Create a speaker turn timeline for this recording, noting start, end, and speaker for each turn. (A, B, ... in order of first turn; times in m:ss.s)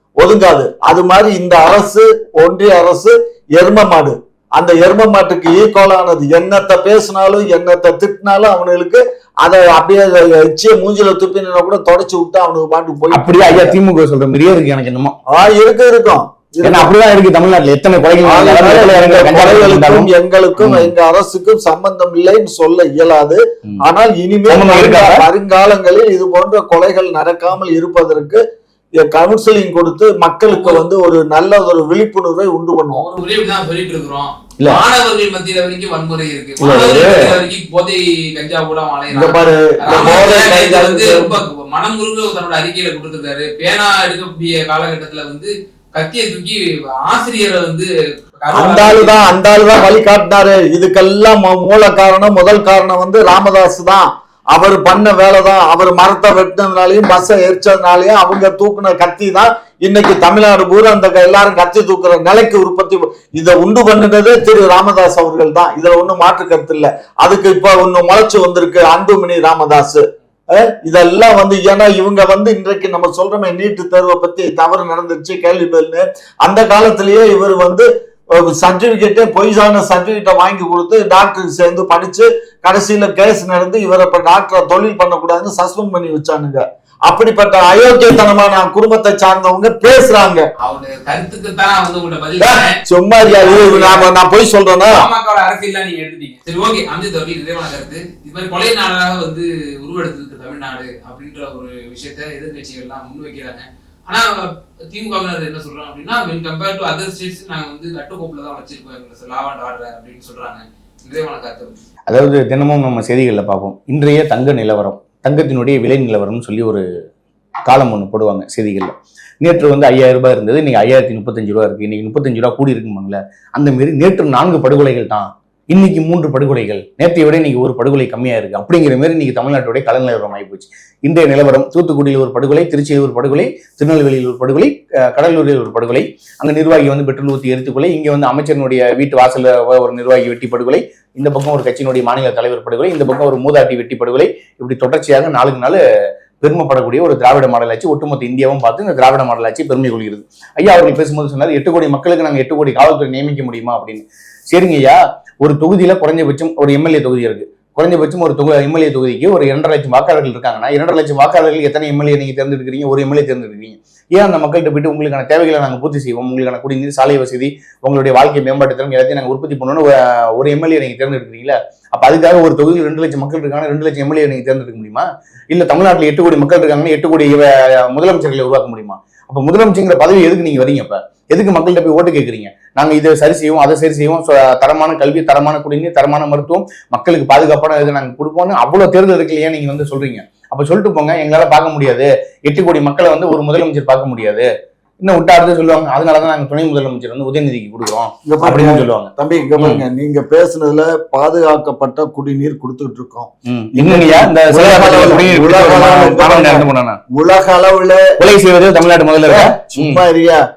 0:00.2-0:13.8 A
0:13.1-0:15.2 B
0:15.3-0:16.9 A
0:16.6-0:20.9 B
0:18.2-0:28.4 A
0:24.5-0:25.2 B
0:29.0-0:33.0 A
0:30.5-0:30.8 C
0:32.9-0:49.2 C
0:36.6-0:37.3 B
0:39.1-0:41.4 A
0:48.5-1:30.5 A
1:30.6-1:34.1 C
1:32.4-1:35.1 A
1:34.9-1:51.8 C
1:52.1-1:56.8 B
1:57.7-2:25.8 B
2:26.4-3:14.5 B
3:15.0-3:19.8 B
3:18.3-3:28.0 A
3:23.4-3:27.0 B
3:28.2-3:30.0 B
3:29.2-3:30.4 A